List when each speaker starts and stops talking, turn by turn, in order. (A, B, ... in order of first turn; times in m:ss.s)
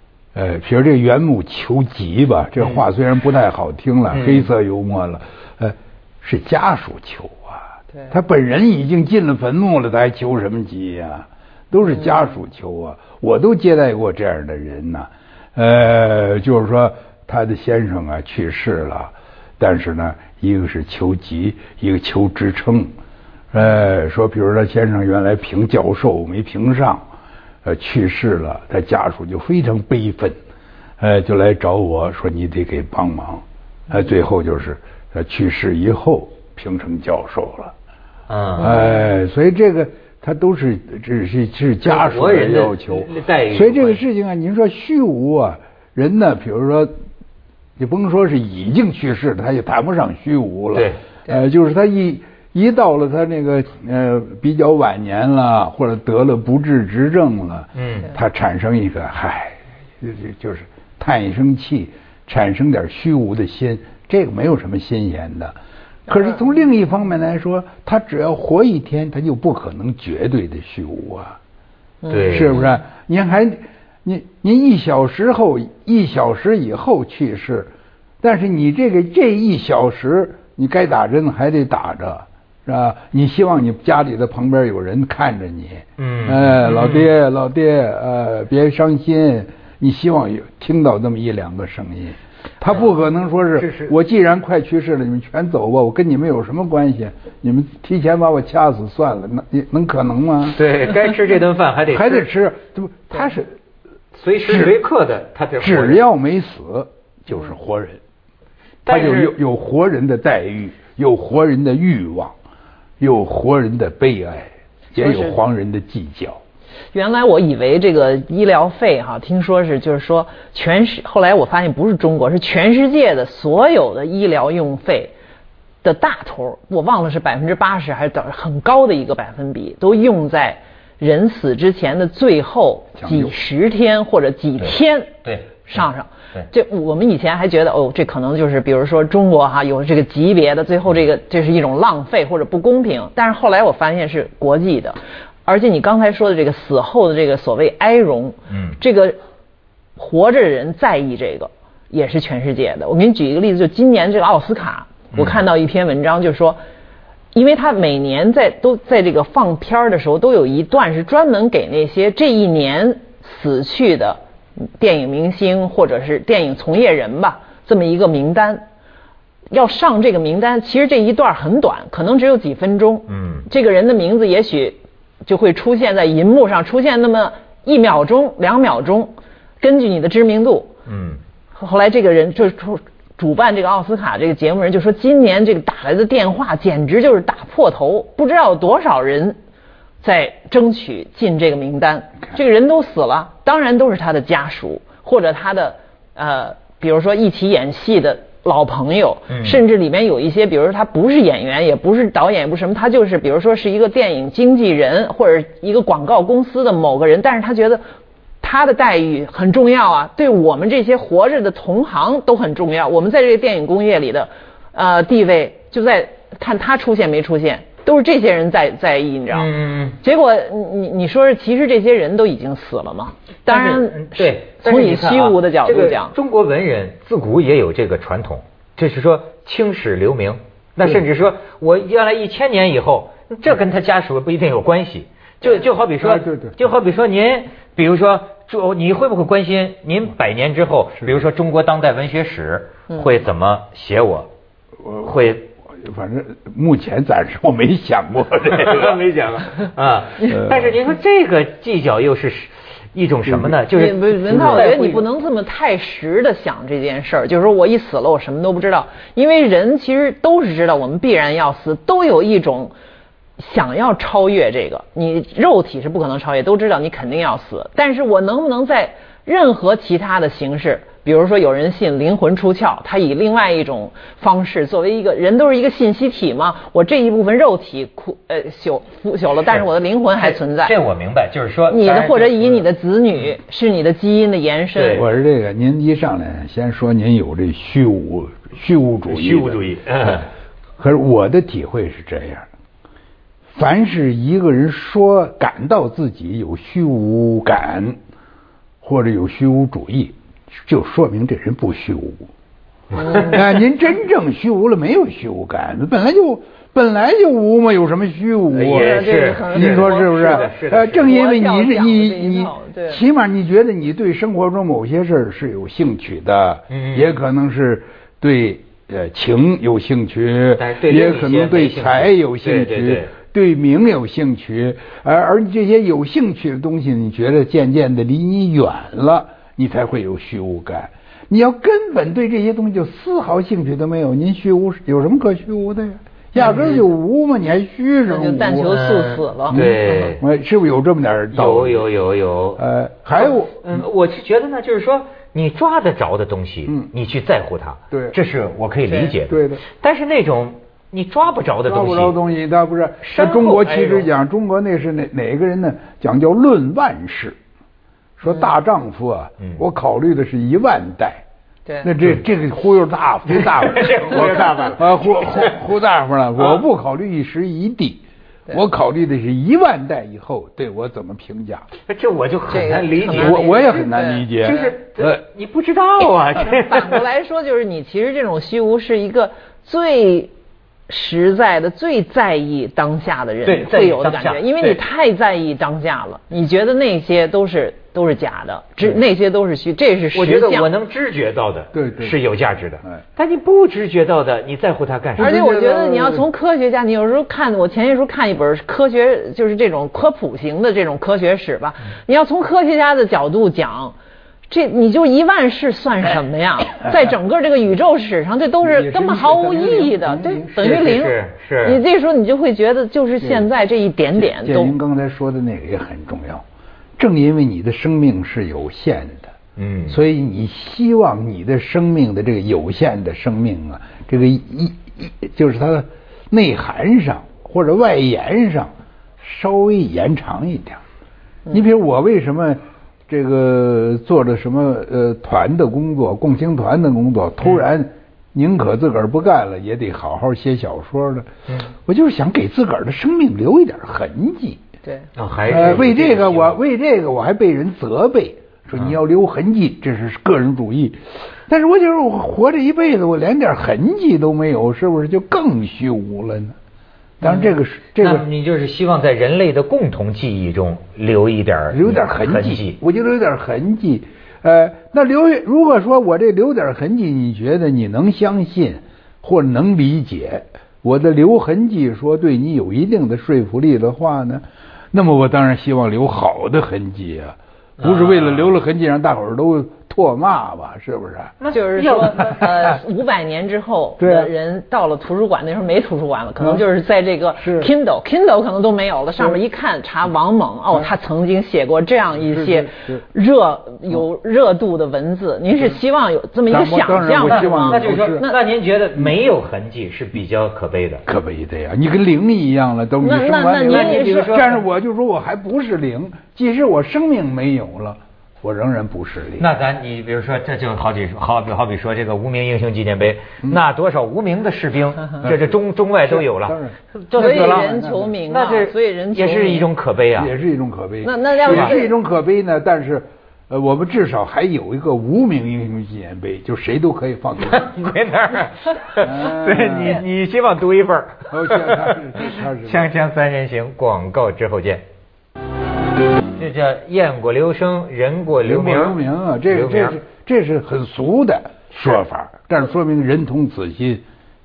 0:00.3-0:22.9 A
0:04.1-0:04.5 B
0:23.5-0:27.0 A
0:27.6-0:30.4 A
0:31.0-0:37.7 A
0:38.3-0:38.9 B
0:38.6-0:46.9 A
0:41.8-0:44.0 B
0:47.8-1:05.6 A
0:50.7-0:51.0 B
0:57.7-0:58.1 B
1:06.1-1:11.4 A
1:12.0-1:12.4 C
1:12.1-1:12.6 B
1:12.3-1:17.7 A
1:18.2-1:40.6 A
1:26.0-1:27.1 B
1:33.6-1:33.9 B
1:40.5-1:42.3 B
1:41.9-1:43.6 A
1:44.1-1:46.0 B
1:44.4-1:44.8 A
1:45.6-1:48.0 A
1:48.8-1:52.3 A
1:48.8-1:49.3 B
1:53.0-1:56.4 A
1:54.9-1:55.4 C
1:56.9-2:05.1 C
2:05.8-2:29.2 C
2:13.0-2:13.3 A
2:14.6-2:15.8 B
2:28.5-2:28.8 B
2:30.0-2:36.6 C
2:35.1-2:35.4 B
2:37.3-2:48.6 C
2:49.5-3:00.7 C
2:53.1-2:53.5 B
3:00.8-3:01.2 B
3:01.6-3:09.4 C
3:10.0-3:27.8 C
3:19.3-3:19.6 B
3:28.4-3:46.1 C
3:39.3-3:40.0 B
3:43.5-4:04.3 B
3:56.0-3:56.5 A
4:04.8-4:05.1 A
4:05.0-4:05.5 B
4:05.7-4:09.0 A
4:08.5-4:15.0 B
4:10.2-4:10.8 A
4:13.2-4:13.6 A
4:13.7-4:22.7 C
4:14.3-4:14.7 A
4:23.4-4:40.7 C
4:40.2-4:42.6 B
4:41.7-4:45.0 C
4:44.7-4:45.1 B
4:44.9-4:49.6 A
4:49.1-4:50.3 B
4:50.8-4:52.5 A
4:53.5-4:58.0 A
4:58.8-5:02.3 A
5:02.9-5:03.4 B
5:03.0-5:03.3 C
5:03.1-5:38.7 A
5:08.5-5:11.2 B
5:08.7-5:13.0 C
5:16.7-5:17.2 B
5:20.5-5:23.1 B
5:36.4-5:36.9 B
5:38.0-5:40.1 C
5:38.7-5:40.2 B
5:39.5-5:41.9 A
5:41.3-5:52.2 B
5:42.6-5:43.9 A
5:46.6-5:46.9 A
5:47.9-5:48.2 A
5:48.9-5:49.1 C
5:49.3-5:49.6 A
5:51.6-5:57.4 A
5:53.0-5:54.1 B
5:58.2-6:01.2 A
6:01.8-6:11.7 A
6:03.3-6:05.6 B
6:06.4-6:06.6 B
6:11.9-6:13.6 B
6:12.5-6:14.6 C
6:13.1-6:15.2 A
6:14.4-6:17.0 B
6:16.4-6:20.3 C
6:20.9-6:30.7 C
6:23.4-6:24.8 B
6:30.1-6:35.3 B
6:31.7-6:32.2 A
6:35.2-6:36.3 A
6:35.2-6:44.0 C
6:44.5-6:54.7 C
6:48.6-6:50.8 A
6:50.6-6:51.8 B
6:53.2-6:53.5 A
6:54.1-6:56.4 A
6:57.0-6:59.3 A
6:59.6-7:00.0 B
6:59.9-7:10.8 A
7:11.5-7:24.6 A
7:25.2-7:26.6 B
7:25.5-7:36.6 A
7:37.2-7:38.3 A
7:38.0-7:42.8 B
7:41.7-8:01.4 A
7:57.8-7:58.5 B
8:01.4-8:02.4 B
8:01.5-8:18.4 C
8:04.0-8:04.3 A
8:06.4-8:06.6 A
8:07.4-8:07.7 A
8:12.2-8:13.0 A
8:16.5-8:18.2 A
8:17.2-8:21.0 B
8:21.0-8:29.5 A
8:23.0-8:24.4 C
8:23.6-8:24.6 B
8:29.4-8:40.3 B
8:35.2-8:38.1 A
8:37.1-8:39.7 C
8:40.2-8:47.7 A
8:41.0-8:41.9 C
8:41.5-8:41.7 B
8:47.4-8:54.8 B
8:49.0-8:50.0 A
8:51.3-8:52.9 A
8:56.4-8:59.0 B
8:58.4-9:04.0 A
8:59.5-9:00.0 B